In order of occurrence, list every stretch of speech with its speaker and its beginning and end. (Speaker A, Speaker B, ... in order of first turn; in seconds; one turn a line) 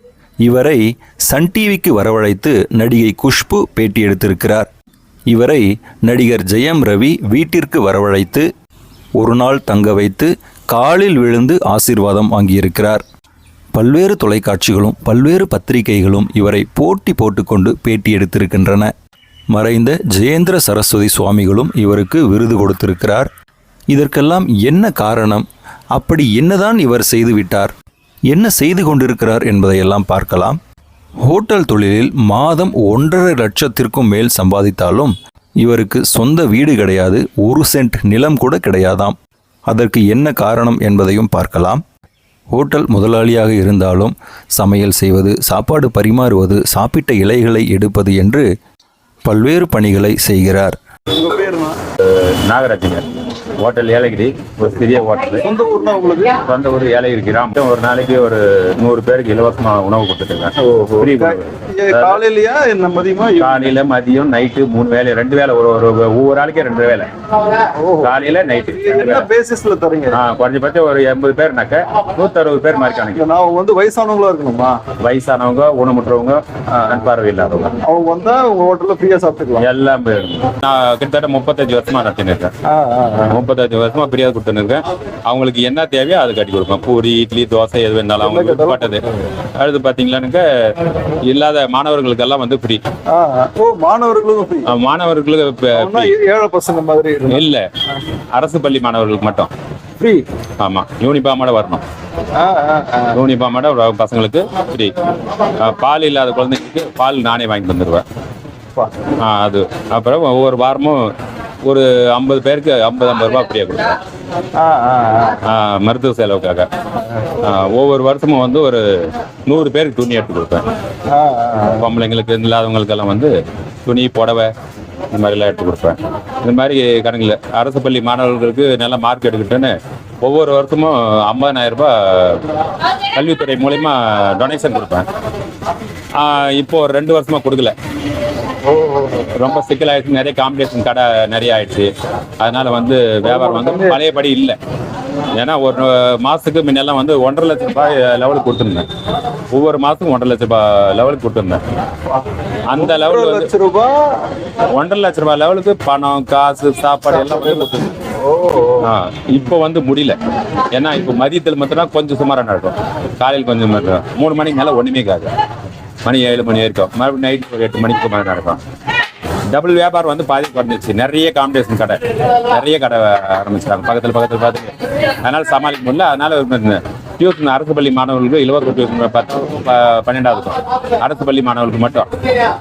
Speaker A: 0.4-4.7
Speaker A: 5.3-8.5
Speaker A: 9.2-13.0
Speaker A: 13.7-18.9
Speaker A: 19.5-23.3
Speaker A: 23.9-27.7
Speaker A: 28.3-30.6
Speaker A: 31.2-41.8
Speaker A: 42.5-48.5
Speaker A: 49.2-50.8
Speaker B: 51.1-51.8
Speaker C: 52.1-53.0
Speaker C: 53.6-55.4
Speaker B: 55.4-56.4
Speaker C: 56.4-62.2
Speaker B: 60.6-63.7
Speaker C: 63.4-67.1
Speaker B: 67.7-68.2
Speaker C: 68.0-69.3
Speaker B: 68.7-70.2
Speaker C: 70.1-73.2
Speaker B: 73.1-74.8
Speaker C: 75.0-77.8
Speaker B: 76.7-77.0
Speaker B: 77.8-79.7
Speaker C: 79.6-82.5
Speaker B: 82.7-83.4
Speaker C: 83.3-89.0
Speaker B: 88.2-89.0
Speaker C: 89.6-92.8
Speaker B: 93.1-94.7
Speaker C: 94.7-96.1
Speaker B: 95.7-97.5
Speaker C: 97.3-97.7
Speaker C: 98.3-99.5
Speaker B: 100.0-100.2
Speaker C: 100.6-101.8
Speaker B: 102.3-103.2
Speaker C: 103.1-104.9
Speaker C: 105.6-108.0
Speaker C: 109.2-111.1
Speaker C: 111.6-114.0
Speaker B: 114.5-115.4
Speaker C: 115.5-116.7
Speaker B: 117.0-117.3
Speaker C: 117.4-120.7
Speaker B: 121.1-121.9
Speaker C: 121.8-123.3
Speaker C: 123.8-124.5
Speaker C: 125.1-132.4
Speaker C: 133.1-135.1
Speaker C: 136.1-137.7
Speaker B: 138.7-139.3
Speaker C: 139.3-144.6
Speaker B: 143.2-144.0
Speaker C: 145.3-148.9
Speaker C: 149.5-151.6
Speaker C: 152.7-153.5
Speaker B: 152.7-154.0
Speaker C: 154.7-157.9
Speaker B: 157.5-158.9
Speaker C: 158.8-160.2
Speaker C: 160.7-165.3
Speaker C: 166.0-168.6
Speaker C: 169.5-182.1